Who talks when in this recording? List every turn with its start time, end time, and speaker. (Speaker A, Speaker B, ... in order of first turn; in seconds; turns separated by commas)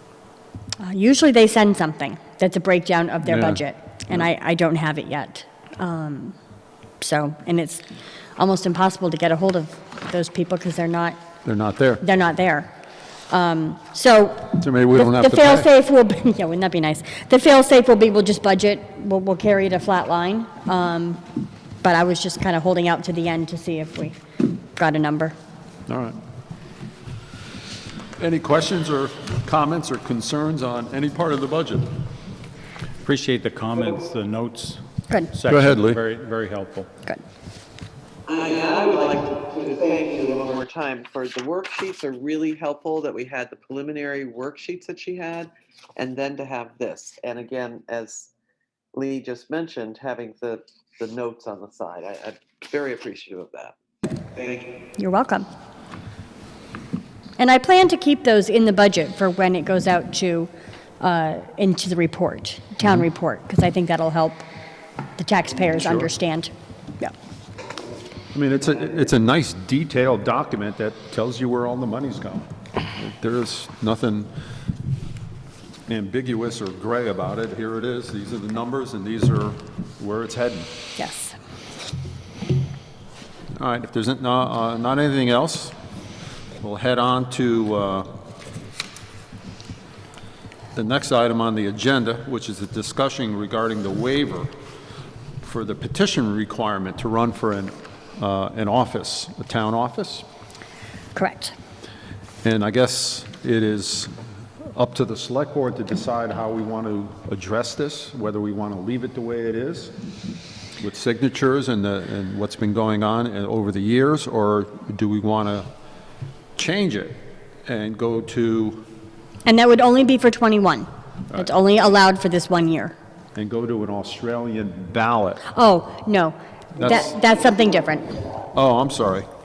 Speaker A: 0.8-6.3, Speaker B: 3.2-3.6, Speaker A: 7.0-7.8, Speaker A: 8.4-11.2, Speaker B: 11.4-12.0, Speaker A: 12.0-12.7, Speaker A: 13.3-21.2, Speaker B: 14.6-15.7, Speaker A: 21.8-24.2, Speaker A: 24.7-25.3, Speaker B: 25.9-26.2, Speaker B: 28.2-31.9, Speaker C: 33.0-36.9, Speaker B: 35.5-36.0, Speaker D: 38.3-48.3, Speaker D: 48.9-53.7, Speaker D: 54.3-54.7, Speaker A: 55.0-55.5, Speaker A: 57.4-64.4, Speaker A: 65.2-67.1, Speaker B: 65.8-66.1, Speaker B: 68.3-74.3, Speaker B: 75.9-80.7, Speaker A: 81.0-81.3, Speaker B: 83.5-85.7, Speaker B: 86.6-88.1, Speaker B: 90.7-94.5, Speaker B: 95.4-100.2, Speaker A: 101.1-101.5, Speaker B: 102.4-104.1, Speaker B: 104.7-109.9, Speaker B: 110.8-115.7, Speaker B: 116.5-118.8, Speaker A: 119.4-122.9, Speaker B: 123.3-125.4, Speaker A: 125.5-128.1, Speaker B: 126.8-127.1, Speaker B: 128.5-129.3